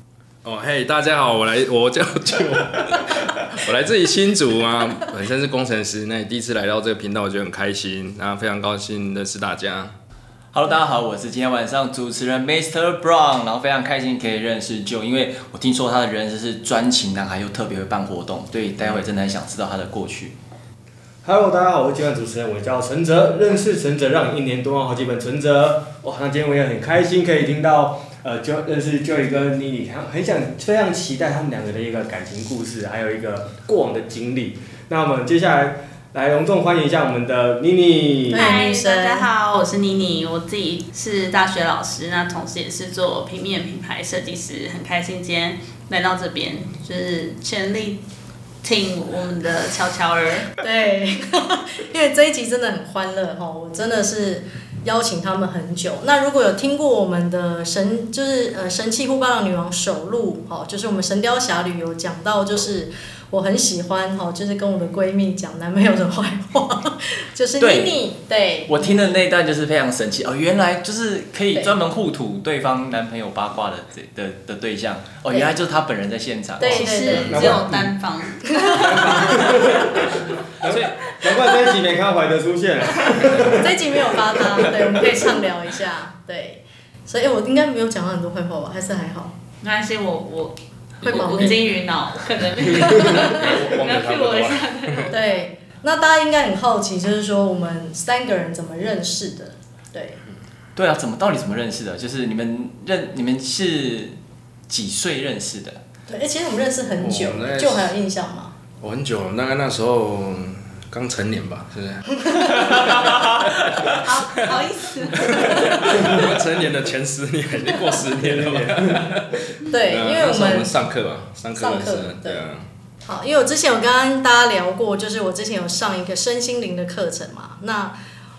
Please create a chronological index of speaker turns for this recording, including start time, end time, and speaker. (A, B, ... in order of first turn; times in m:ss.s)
0:00.4-0:09.9 A
0:10.5-0:20.3 B
0:21.2-0:38.5 C
0:38.3-0:39.3 D
0:38.3-0:48.0 E
0:48.6-0:50.5 E
0:50.6-1:09.2 D
1:07.6-1:08.0 B
1:08.7-1:16.9 B
1:15.3-1:15.6 D
1:16.6-1:17.5 D
1:16.6-1:19.6 E
1:17.1-1:17.9 C
1:17.1-1:17.5 A
1:18.5-1:19.7 D
1:18.7-1:24.0 C
1:20.6-1:21.1 B
1:23.4-1:29.3 D
1:29.6-1:35.4 E
1:31.0-1:31.6 D
1:31.2-1:31.5 A
1:32.6-1:35.0 A
1:32.9-1:33.4 D
1:35.1-1:40.2 D
1:40.8-1:44.2 B
1:44.7-1:45.8 B
1:46.1-1:48.6 D
1:47.0-1:48.0 A
1:48.8-1:54.6 A
1:52.2-1:52.8 D
1:52.7-1:53.5 B
1:53.9-1:56.1 E
1:55.2-2:02.7 A
1:55.5-1:55.9 D
1:58.1-1:59.1 C
1:59.7-2:00.8 D
2:01.6-2:02.4 D
2:03.0-2:08.0 D